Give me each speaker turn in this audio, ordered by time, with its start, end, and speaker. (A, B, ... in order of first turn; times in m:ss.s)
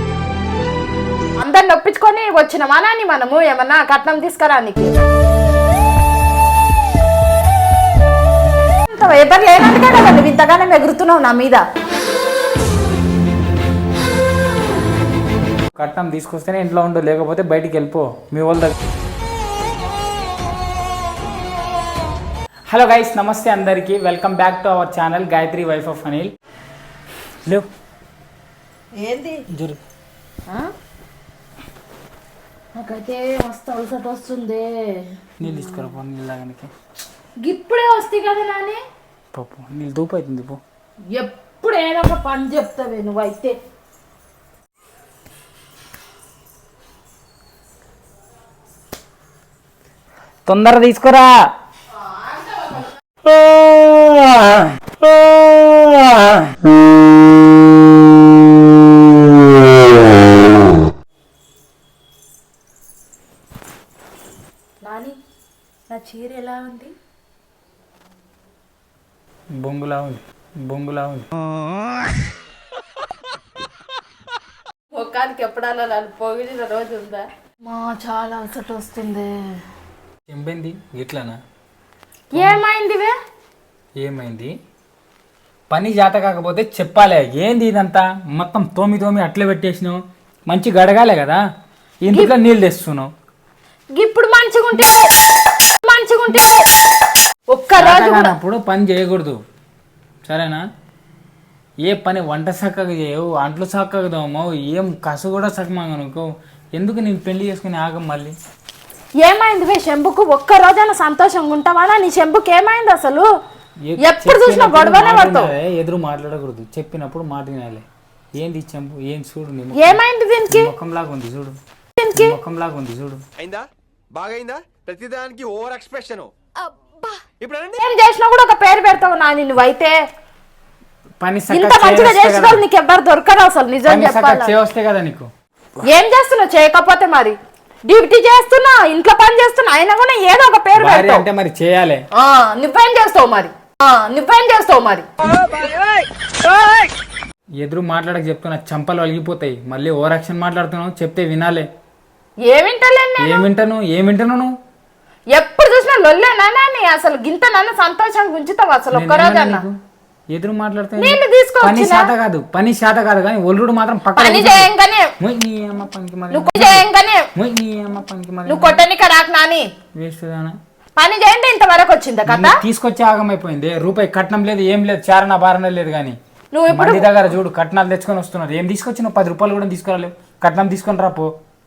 0:01.4-0:04.9 A
0:08.9-0:11.6 A
0:15.8-0:18.7 B
0:22.7-0:26.3 B
0:28.9-0:29.5 A
0:29.5-0:29.8 B
0:30.5-0:30.7 A
0:32.8-0:35.9 A
0:35.4-0:36.7 B
0:37.4-0:38.8 A
0:39.3-0:40.6 B
0:41.1-0:43.6 A
0:50.4-0:51.3 B
0:52.1-0:52.9 A
0:53.4-0:54.6 B
1:04.8-1:05.2 A
1:05.9-1:06.9 A
1:09.6-1:11.3 B
1:14.9-1:19.6 A
1:20.3-1:21.4 B
1:22.3-1:23.1 A
1:24.0-1:24.5 B
1:25.7-1:30.0 B
1:30.5-1:31.4 B
1:32.0-1:33.1 B
1:34.0-1:35.1 A
1:35.6-1:36.7 A
1:37.5-1:38.3 A
1:37.8-1:39.4 B
1:40.2-1:40.6 B
1:41.9-1:46.2 B
1:46.8-1:48.3 B
1:49.2-1:53.3 A
1:53.9-1:57.8 B
1:54.0-1:55.5 A
1:58.4-2:01.6 B
1:59.7-2:00.7 A
2:02.0-2:02.3 A
2:02.1-2:03.2 B
2:03.4-2:06.3 C
2:07.4-2:07.8 C
2:07.8-2:10.0 A
2:11.2-2:12.6 B
2:11.5-2:14.5 A
2:13.8-2:15.3 B
2:15.8-2:21.2 A
2:20.8-2:22.0 B
2:22.1-2:25.1 A
2:27.6-2:31.7 B
2:32.4-2:33.4 A
2:33.2-2:34.5 B
2:35.3-2:39.6 A
2:38.9-2:39.7 B
2:40.3-2:48.8 B
2:41.0-2:42.1 A
2:44.1-2:45.1 A
2:46.3-2:47.3 A
2:48.4-2:49.7 A
2:50.0-2:50.6 B
2:51.0-2:52.6 A
2:52.2-2:56.2 B
2:56.5-2:57.1 A
2:56.7-3:01.3 B